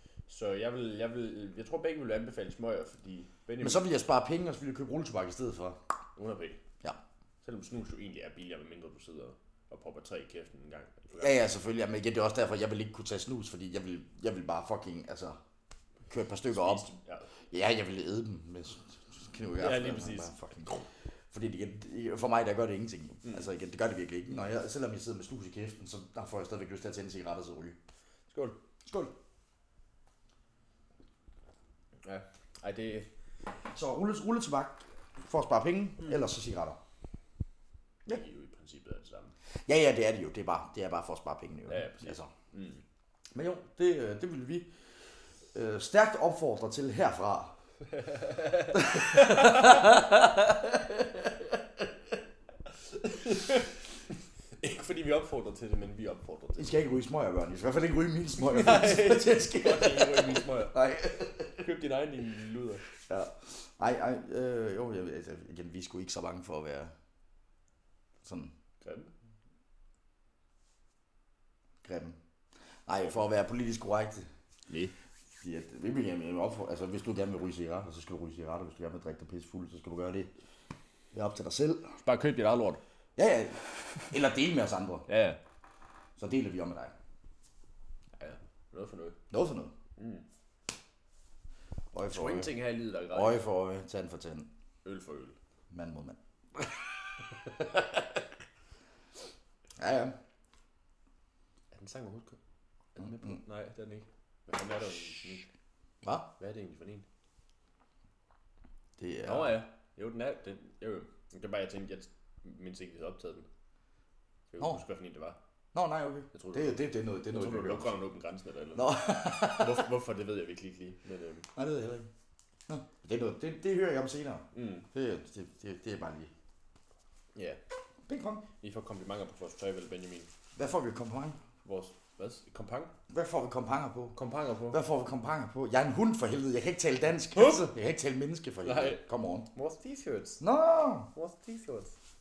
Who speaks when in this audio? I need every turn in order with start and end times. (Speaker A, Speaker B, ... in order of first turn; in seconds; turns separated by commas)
Speaker A: 0.3-3.9, Speaker B: 3.6-5.8, Speaker A: 6.2-6.6, Speaker A: 7.4-11.4, Speaker B: 11.1-15.4, Speaker B: 16.1-16.9, Speaker A: 16.5-17.3, Speaker B: 17.5-27.8, Speaker A: 19.6-20.3, Speaker A: 28.3-28.6, Speaker B: 28.9-29.1, Speaker A: 32.0-33.1, Speaker B: 33.7-36.8, Speaker A: 38.1-39.3, Speaker B: 39.7-42.3, Speaker A: 41.7-42.8, Speaker B: 43.3-44.7, Speaker B: 45.5-47.5, Speaker B: 48.7-51.4, Speaker A: 49.1-49.6, Speaker A: 53.1-53.7, Speaker A: 54.6-56.8, Speaker B: 56.6-61.6, Speaker A: 58.4-60.8, Speaker A: 61.6-62.8, Speaker B: 63.1-66.9, Speaker B: 68.2-68.5, Speaker A: 68.8-69.1, Speaker B: 71.8-72.2, Speaker B: 72.9-74.3, Speaker A: 74.7-74.9, Speaker B: 75.4-80.3, Speaker B: 81.1-82.0, Speaker A: 82.0-82.8, Speaker B: 83.2-85.1, Speaker A: 85.1-85.4, Speaker B: 86.2-87.0, Speaker A: 88.2-89.2, Speaker B: 89.3-89.7, Speaker A: 90.0-90.2, Speaker B: 91.9-92.6, Speaker A: 92.1-93.4, Speaker B: 93.1-94.5, Speaker A: 94.8-95.4, Speaker B: 95.7-96.2, Speaker B: 99.8-100.2, Speaker A: 101.7-102.4, Speaker A: 103.0-105.5, Speaker B: 106.0-106.3, Speaker A: 106.4-107.1, Speaker B: 109.0-109.6, Speaker A: 109.2-113.5, Speaker A: 114.5-115.4, Speaker B: 115.7-117.9, Speaker A: 116.3-121.5, Speaker B: 118.8-119.9, Speaker B: 121.6-122.1, Speaker B: 122.7-126.3, Speaker A: 124.5-124.9, Speaker A: 127.3-127.6, Speaker B: 128.1-128.5, Speaker A: 128.6-130.3, Speaker B: 130.6-131.4, Speaker A: 131.6-132.9, Speaker B: 133.1-134.2, Speaker A: 134.2-134.8, Speaker B: 134.7-139.5, Speaker A: 137.3-137.7, Speaker A: 138.6-140.4, Speaker B: 140.4-141.1, Speaker A: 141.1-141.9